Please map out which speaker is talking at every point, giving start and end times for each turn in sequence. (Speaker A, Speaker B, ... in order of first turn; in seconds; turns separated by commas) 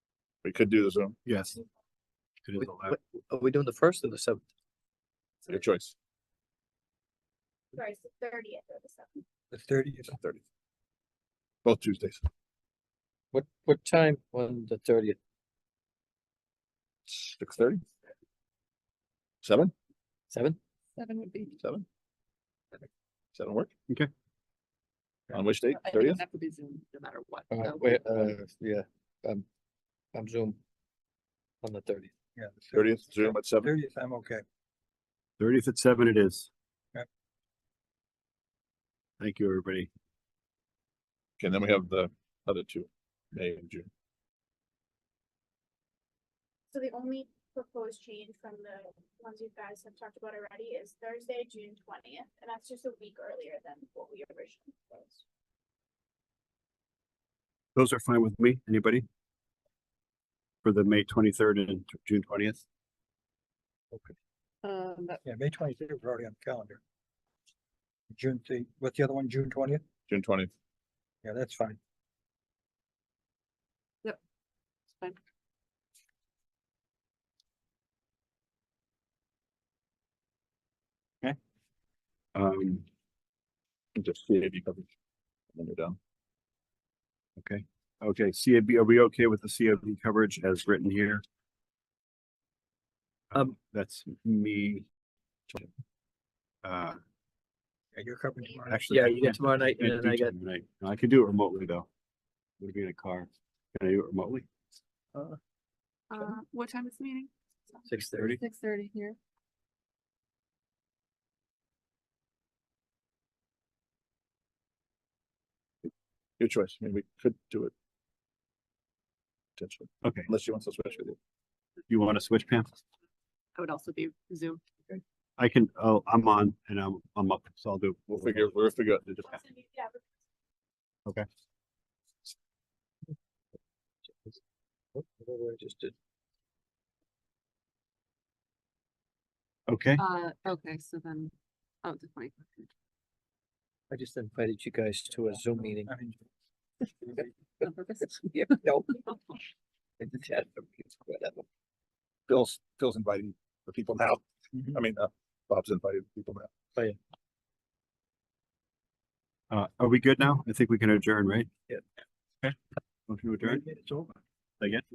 Speaker A: 0.4-1.1, Speaker B: 1.2-1.6, Speaker B: 2.4-3.0, Speaker C: 2.6-4.4, Speaker A: 5.5-5.9, Speaker D: 7.7-9.2, Speaker E: 9.5-10.2, Speaker A: 10.1-10.4, Speaker A: 11.7-12.2, Speaker C: 13.3-15.2, Speaker A: 17.1-17.8, Speaker A: 19.4-19.7, Speaker C: 20.3-20.6, Speaker F: 21.0-21.6, Speaker A: 21.6-21.9, Speaker A: 23.4-23.7, Speaker A: 25.3-26.2, Speaker F: 25.7-28.4, Speaker C: 27.5-29.4, Speaker C: 30.1-30.6, Speaker C: 31.6-32.1, Speaker E: 32.4-34.4, Speaker A: 32.7-33.7, Speaker B: 35.4-36.5, Speaker B: 39.2-39.9, Speaker A: 41.4-43.9, Speaker D: 46.7-55.2, Speaker B: 57.8-59.0, Speaker B: 60.6-62.6, Speaker F: 64.6-65.2, Speaker E: 65.2-66.8, Speaker E: 68.1-69.8, Speaker A: 70.1-70.5, Speaker E: 71.2-71.8, Speaker B: 82.3-82.9, Speaker A: 84.0-84.9, Speaker A: 85.5-86.0, Speaker B: 87.4-91.2, Speaker B: 93.3-94.9, Speaker B: 96.6-97.0, Speaker E: 97.9-98.9, Speaker B: 98.7-101.9, Speaker C: 98.9-100.3, Speaker B: 102.6-104.5, Speaker F: 106.1-109.2, Speaker C: 107.9-108.4, Speaker A: 116.4-117.7, Speaker A: 119.6-121.2, Speaker B: 120.0-120.3, Speaker B: 121.9-122.8, Speaker F: 123.6-124.6, Speaker B: 125.4-129.4, Speaker A: 128.1-129.0, Speaker D: 129.2-130.1, Speaker C: 134.1-134.4, Speaker C: 134.9-135.9, Speaker B: 139.7-140.0, Speaker F: 140.0-142.7, Speaker C: 143.9-145.9, Speaker E: 145.4-146.3, Speaker E: 147.0-147.3, Speaker F: 147.6-149.1, Speaker C: 148.3-149.0, Speaker C: 150.0-151.5, Speaker A: 152.3-156.5, Speaker E: 154.5-154.8, Speaker B: 159.5-161.5, Speaker B: 163.1-163.6, Speaker E: 163.4-164.2